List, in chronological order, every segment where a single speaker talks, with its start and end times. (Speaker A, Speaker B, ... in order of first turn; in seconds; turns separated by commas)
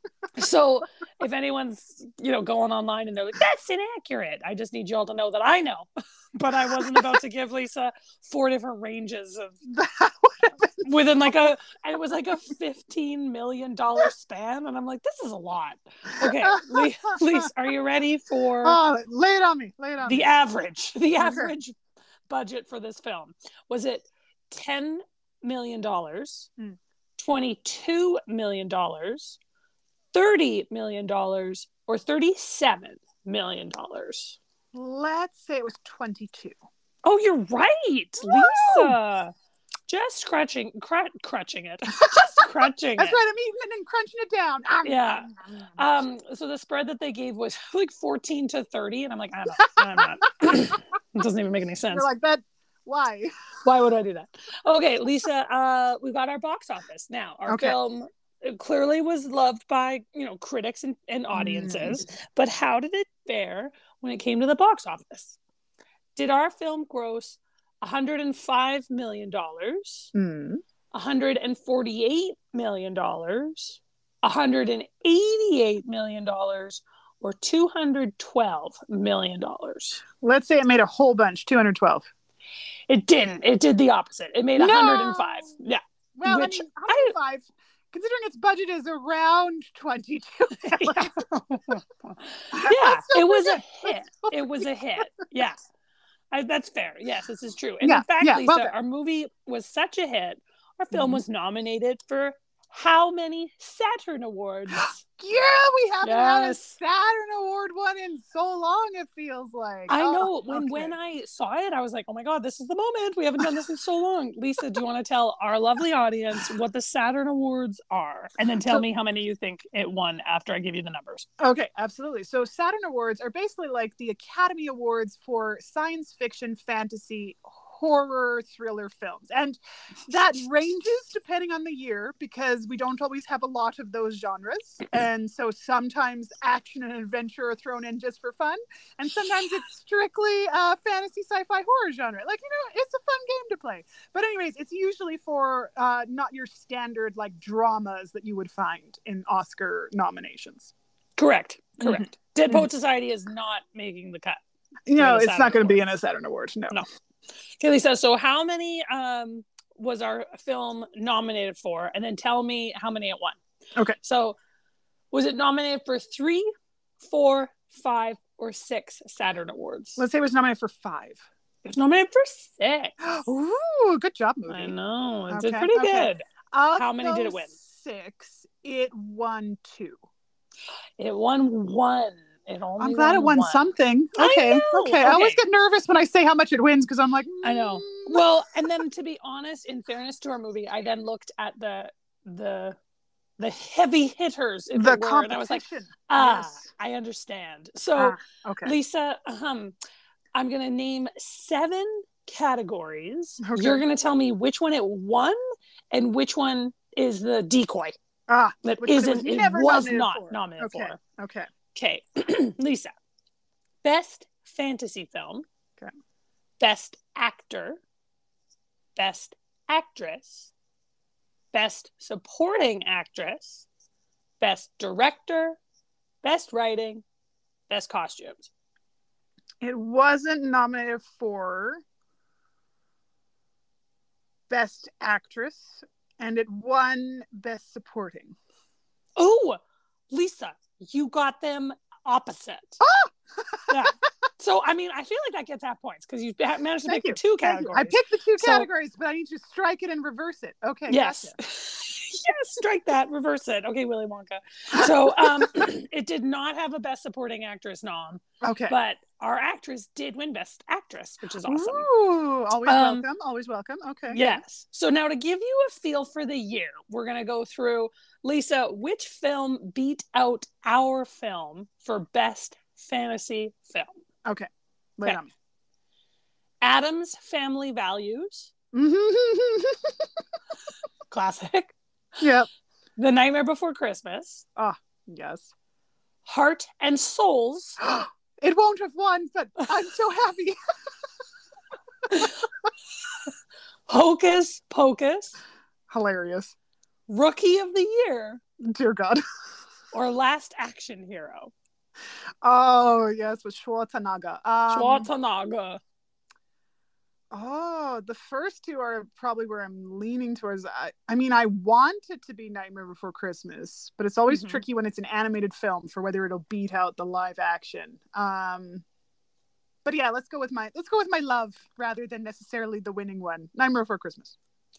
Speaker A: 0.3-9.6, Speaker B: 9.7-11.5, Speaker A: 10.8-18.8, Speaker B: 16.2-17.5, Speaker B: 18.6-20.2, Speaker A: 20.0-21.8, Speaker B: 21.2-21.5, Speaker A: 22.3-26.5, Speaker A: 27.2-29.4, Speaker A: 30.1-34.4, Speaker B: 34.7-36.6, Speaker A: 37.0-39.3, Speaker B: 38.2-39.0, Speaker A: 39.9-43.2, Speaker B: 42.0-42.5, Speaker B: 43.0-45.7, Speaker A: 44.8-52.0, Speaker B: 49.8-50.6, Speaker B: 51.9-53.3, Speaker A: 53.6-65.4, Speaker B: 57.5-57.8, Speaker B: 61.3-62.0, Speaker A: 66.1-70.1, Speaker B: 70.1-70.6, Speaker A: 70.9-80.0, Speaker B: 80.2-82.1, Speaker A: 82.9-87.1, Speaker B: 84.6-85.5, Speaker B: 86.2-91.2, Speaker A: 90.6-95.6, Speaker B: 92.5-94.7, Speaker A: 96.3-105.0, Speaker B: 97.8-98.7, Speaker B: 100.9-101.2, Speaker B: 104.8-110.9, Speaker A: 106.0-106.8, Speaker A: 109.9-121.3, Speaker B: 121.4-150.7, Speaker A: 151.2-154.4, Speaker B: 151.8-152.7, Speaker B: 154.9-156.8, Speaker A: 154.9-155.8, Speaker A: 157.6-163.4, Speaker A: 164.0-164.4, Speaker A: 165.1-166.5, Speaker A: 167.0-170.0, Speaker B: 170.0-171.2, Speaker A: 171.6-173.1, Speaker B: 173.0-174.7, Speaker A: 174.5-177.5, Speaker B: 175.3-180.0, Speaker A: 181.0-183.6, Speaker B: 182.8-188.2, Speaker A: 184.1-185.4, Speaker A: 187.4-192.8, Speaker A: 193.4-199.8, Speaker B: 194.7-196.6, Speaker B: 197.9-198.7, Speaker A: 200.3-205.4, Speaker B: 203.4-203.8, Speaker A: 205.9-208.0, Speaker B: 208.3-211.5, Speaker A: 208.6-211.0, Speaker A: 211.7-212.9, Speaker A: 213.8-215.4, Speaker A: 216.6-217.8, Speaker A: 218.9-220.5, Speaker A: 221.5-223.7, Speaker A: 224.4-225.6, Speaker A: 226.2-227.0, Speaker A: 227.7-228.5, Speaker B: 229.6-231.8, Speaker B: 234.5-238.3, Speaker A: 239.2-242.8, Speaker B: 242.8-243.7, Speaker A: 243.7-248.7, Speaker B: 246.8-251.3, Speaker A: 250.9-261.9, Speaker B: 255.1-255.6, Speaker B: 258.4-258.7, Speaker B: 261.4-264.4, Speaker A: 262.6-263.1, Speaker A: 264.1-274.0, Speaker B: 274.2-275.3, Speaker A: 276.6-278.5, Speaker B: 278.7-280.1, Speaker A: 281.1-281.7, Speaker B: 282.2-282.5, Speaker A: 283.0-284.4, Speaker B: 284.6-285.5, Speaker A: 286.2-287.8, Speaker B: 287.8-290.6, Speaker A: 292.1-292.4, Speaker A: 293.9-295.4, Speaker B: 295.9-296.5, Speaker A: 297.1-298.4, Speaker B: 298.6-299.2, Speaker A: 299.9-301.5, Speaker B: 302.4-305.1, Speaker A: 304.7-305.8, Speaker B: 307.3-318.8, Speaker A: 314.3-314.6, Speaker B: 319.8-324.4